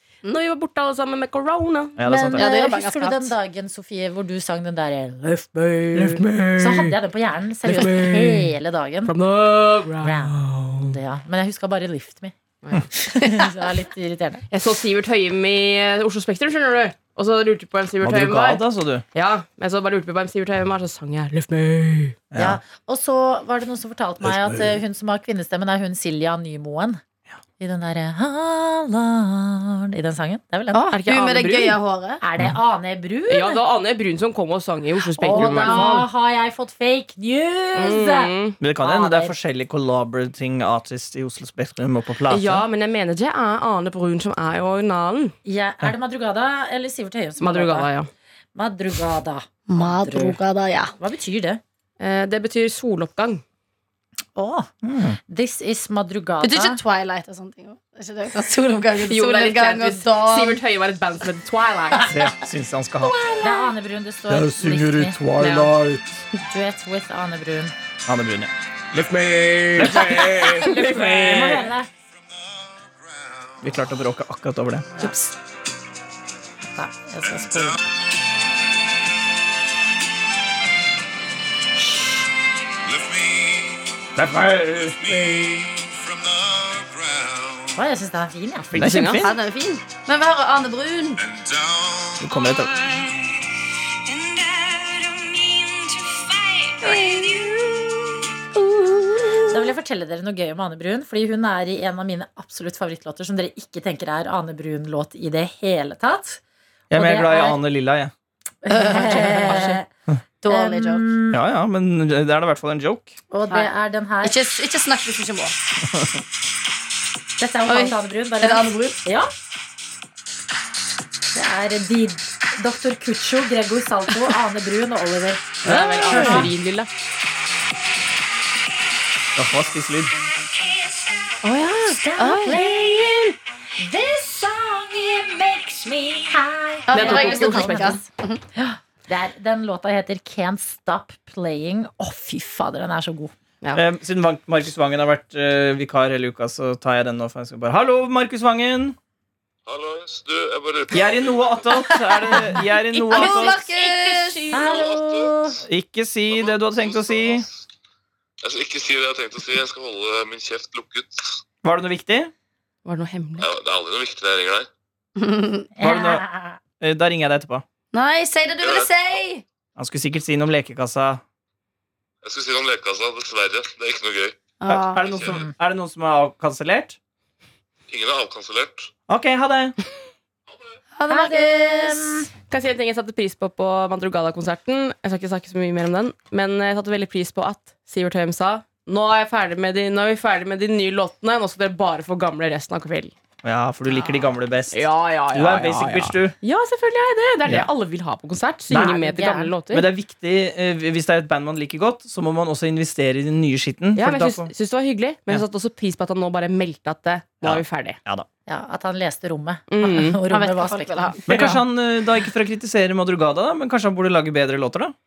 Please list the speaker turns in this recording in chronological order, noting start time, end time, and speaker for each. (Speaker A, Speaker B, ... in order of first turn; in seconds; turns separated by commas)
Speaker A: 0.2-2.0, Speaker B: 2.0-2.5, Speaker C: 2.1-9.1, Speaker D: 2.4-3.3, Speaker A: 6.0-6.8, Speaker A: 7.7-8.5, Speaker A: 9.1-10.9, Speaker C: 10.0-10.3, Speaker C: 10.9-12.3, Speaker A: 12.6-12.9, Speaker C: 13.1-14.4, Speaker A: 14.5-22.2, Speaker B: 18.0-19.0, Speaker B: 22.3-22.6, Speaker C: 22.4-27.0, Speaker C: 27.6-30.9, Speaker D: 30.7-32.2, Speaker A: 30.9-31.8, Speaker C: 32.2-33.6, Speaker A: 33.3-36.1, Speaker B: 35.2-36.0, Speaker C: 35.2-39.3, Speaker A: 37.8-38.6, Speaker B: 38.6-42.6, Speaker A: 42.3-45.4, Speaker C: 45.5-47.9, Speaker A: 47.4-48.1, Speaker C: 48.5-50.4, Speaker D: 49.7-50.9, Speaker C: 51.0-51.6, Speaker A: 52.0-53.4, Speaker C: 54.4-54.7, Speaker B: 54.8-55.2, Speaker C: 55.3-56.8, Speaker D: 56.4-60.6, Speaker A: 59.0-62.1, Speaker B: 62.1-63.1, Speaker C: 63.4-65.2, Speaker B: 64.5-66.0, Speaker A: 65.4-65.8, Speaker C: 66.5-67.7, Speaker B: 68.1-71.7, Speaker A: 69.8-71.7, Speaker C: 71.1-71.9, Speaker B: 73.6-74.9, Speaker D: 75.0-75.3, Speaker C: 76.7-77.8, Speaker E: 82.9-84.0, Speaker B: 84.2-85.2, Speaker E: 86.1-87.5, Speaker C: 87.8-88.8, Speaker A: 88.7-89.3, Speaker B: 88.8-89.3, Speaker D: 89.2-91.2, Speaker E: 91.3-92.2, Speaker B: 92.2-93.0, Speaker D: 96.8-97.3, Speaker C: 99.5-107.6, Speaker B: 106.9-108.1, Speaker C: 108.7-109.9, Speaker D: 108.7-109.8, Speaker D: 110.4-111.0, Speaker C: 110.5-111.4, Speaker B: 111.3-113.2, Speaker C: 113.3-114.4, Speaker D: 114.2-115.6, Speaker C: 117.4-119.3, Speaker D: 117.7-119.0, Speaker C: 121.3-126.5, Speaker B: 125.7-126.5, Speaker A: 125.7-126.9, Speaker B: 129.4-130.2, Speaker C: 131.4-143.3, Speaker A: 132.2-132.6, Speaker D: 136.9-138.4, Speaker A: 136.9-137.9, Speaker B: 143.7-149.0, Speaker E: 149.7-151.7, Speaker B: 150.9-153.6, Speaker A: 152.6-154.7, Speaker D: 153.1-154.7, Speaker C: 154.5-155.6, Speaker E: 154.6-155.5, Speaker B: 155.7-157.5, Speaker E: 156.4-157.3, Speaker E: 158.4-161.1, Speaker B: 161.6-162.3, Speaker A: 162.8-163.5, Speaker E: 163.4-164.7, Speaker D: 165.2-165.7, Speaker C: 165.8-166.6, Speaker B: 165.8-166.2, Speaker B: 166.8-167.6, Speaker D: 167.9-169.4, Speaker E: 168.6-168.9, Speaker B: 169.8-171.2, Speaker E: 172.2-174.4, Speaker D: 174.6-175.0, Speaker B: 174.7-177.0, Speaker E: 175.0-175.4, Speaker E: 177.9-178.9, Speaker B: 179.1-179.8, Speaker D: 180.9-182.2, Speaker C: 181.1-182.3, Speaker A: 182.5-193.1, Speaker B: 193.4-196.4, Speaker A: 194.7-199.9, Speaker B: 198.7-198.9, Speaker C: 198.8-199.5, Speaker B: 199.7-204.5, Speaker A: 203.9-208.0, Speaker B: 207.4-208.3, Speaker C: 208.5-211.2, Speaker A: 209.7-210.2, Speaker D: 210.3-211.6, Speaker B: 211.3-214.9